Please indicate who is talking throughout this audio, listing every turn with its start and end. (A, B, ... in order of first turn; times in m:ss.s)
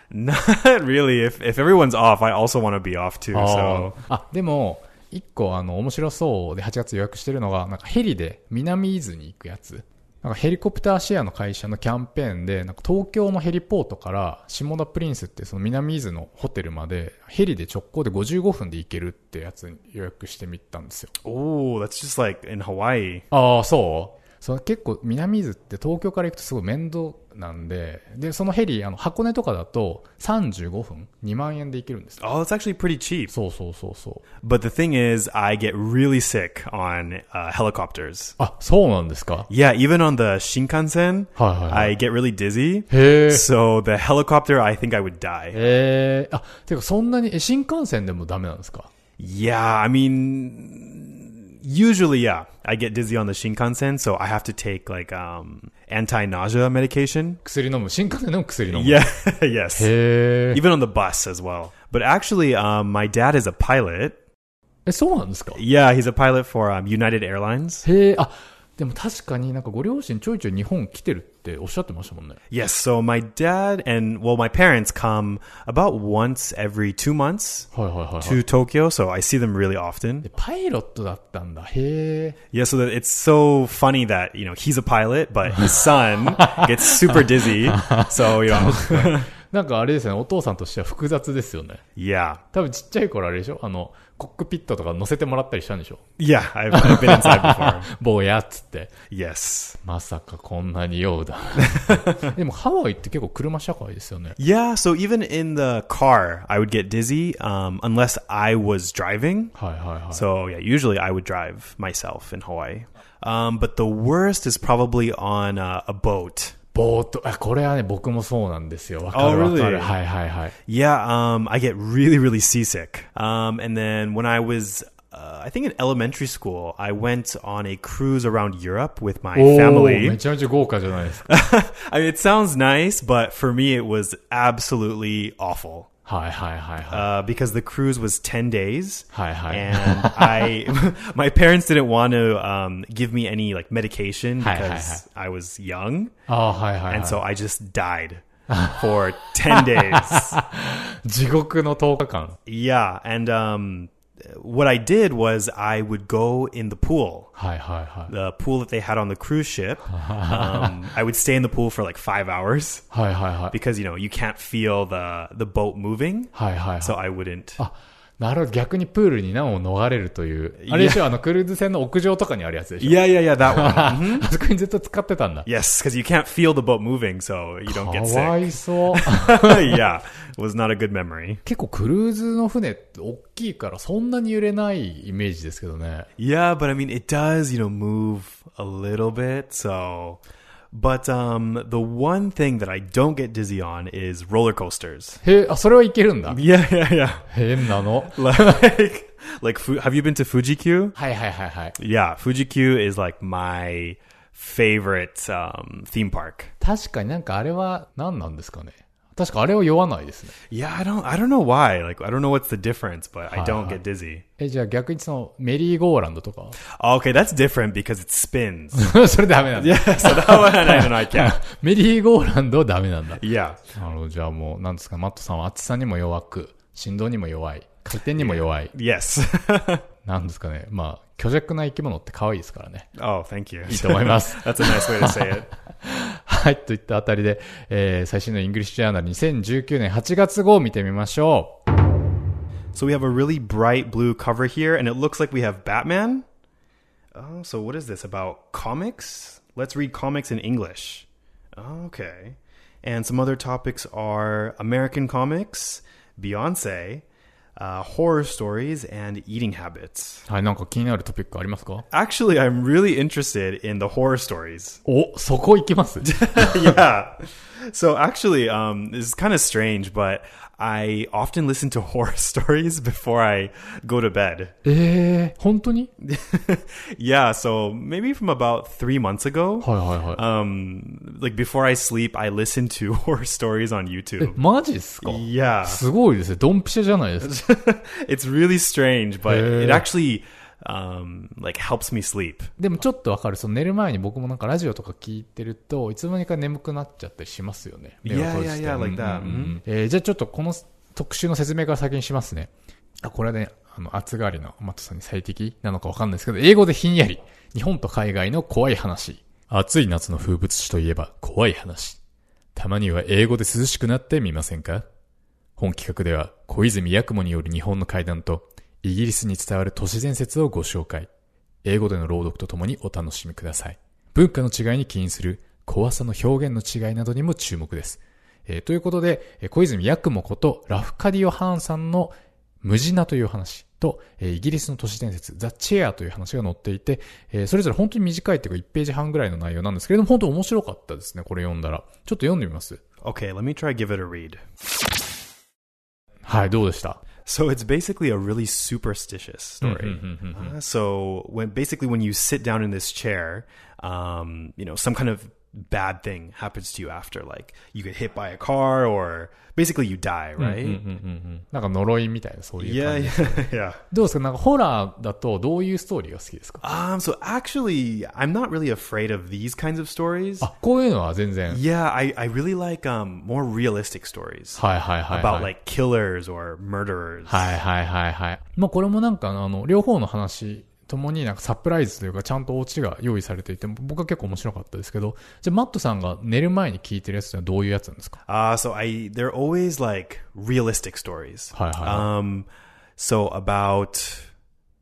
0:00.1-0:04.0 A
0:03.3-0:21.1 B
0:21.2-0:23.3 A
0:23.3-0:32.2 B
0:32.2-0:33.3 A
0:33.3-0:34.2 B
0:34.4-0:38.4 A
0:38.4-0:39.5 B
0:39.5-0:45.6 A
0:41.4-0:42.0 B
0:42.9-0:43.5 B
0:45.5-0:48.9 B
0:49.2-0:57.4 A
0:57.4-0:59.0 B
0:58.7-0:59.9 A
0:59.8-1:00.6 B
1:00.5-1:04.2 A
1:04.9-1:05.6 B
1:05.5-1:07.9 A
1:07.8-1:12.4 B
1:12.5-1:20.3 A
1:17.7-1:18.4 B
1:20.2-1:22.4 B
1:22.5-1:29.3 A
1:26.5-1:31.8 B
1:32.0-1:32.4 A
1:32.5-1:36.0 B
1:36.2-1:37.9 A
1:36.7-1:38.9 B
1:39.1-1:39.8 A
1:39.8-1:44.4 B
1:41.6-1:42.3 A
1:44.4-1:49.6 A
1:49.6-1:50.2 B
1:50.1-1:56.6 A
1:56.7-2:00.6 B
1:59.1-1:59.9 A
2:00.7-2:10.2 A
2:09.4-2:11.3 B
2:11.3-2:15.9 A
2:16.1-2:17.1 B
2:16.9-2:26.1 A
2:19.1-2:20.5 B
2:24.4-2:25.0 B
2:26.3-2:27.2 B
2:26.9-2:30.4 A
2:28.5-2:29.0 B
2:29.5-2:32.4 B
2:32.5-2:37.4 A
2:37.4-2:38.1 B
2:38.1-2:42.9 A
2:39.9-2:40.8 B
2:42.9-2:43.6 B
2:43.5-2:47.6 A
2:46.3-2:47.0 B
2:47.6-2:55.5 B
2:50.6-2:51.1 A
2:52.8-2:54.3 A
2:55.5-3:01.4 A
2:57.7-2:59.8 B
3:01.4-3:06.1 B
3:06.2-3:15.2 A
3:15.2-3:16.4 B
3:16.3-3:21.0 A
3:17.3-3:18.6 B
3:21.0-3:21.8 B
3:21.8-3:26.5 A
3:26.6-3:30.4 B
3:30.5-3:34.2 A
3:33.3-3:33.8 B
3:34.4-3:36.6 B
3:36.7-3:39.0 A
3:38.8-3:48.7 B
3:39.6-3:41.4 A
3:43.2-3:43.6 A
3:48.2-3:49.8 A
3:50.0-3:52.9 B
3:53.0-3:55.5 A
3:53.7-4:01.6 B
4:02.7-4:06.3 A
4:07.1-4:17.0 A
4:17.6-4:20.3 A
4:20.3-4:21.9 B
4:21.9-4:24.8 A
4:24.9-4:26.8 B
4:26.0-4:34.6 A
4:34.6-4:35.9 B
4:36.0-4:44.4 A
4:39.6-4:40.2 B
4:44.2-4:47.3 B
4:45.0-4:45.8 A
4:47.2-4:52.5 A
4:49.3-4:49.9 B
4:52.6-5:02.5 B
4:58.0-4:59.6 A
5:03.0-5:12.0 B
5:12.6-5:14.9 B
5:15.6-5:21.1 B
5:21.6-5:42.8 B
5:43.0-5:44.4 A
5:46.2-5:47.0 B
5:47.2-6:00.8 A
5:49.6-5:50.6 B
6:00.4-6:06.6 B
6:02.6-6:03.8 A
6:06.6-6:10.5 A
6:10.4-6:11.6 B
6:11.5-6:17.6 A
6:14.6-6:15.5 B
6:17.3-6:28.2 B
6:28.3-6:34.3 A
6:31.5-6:32.1 B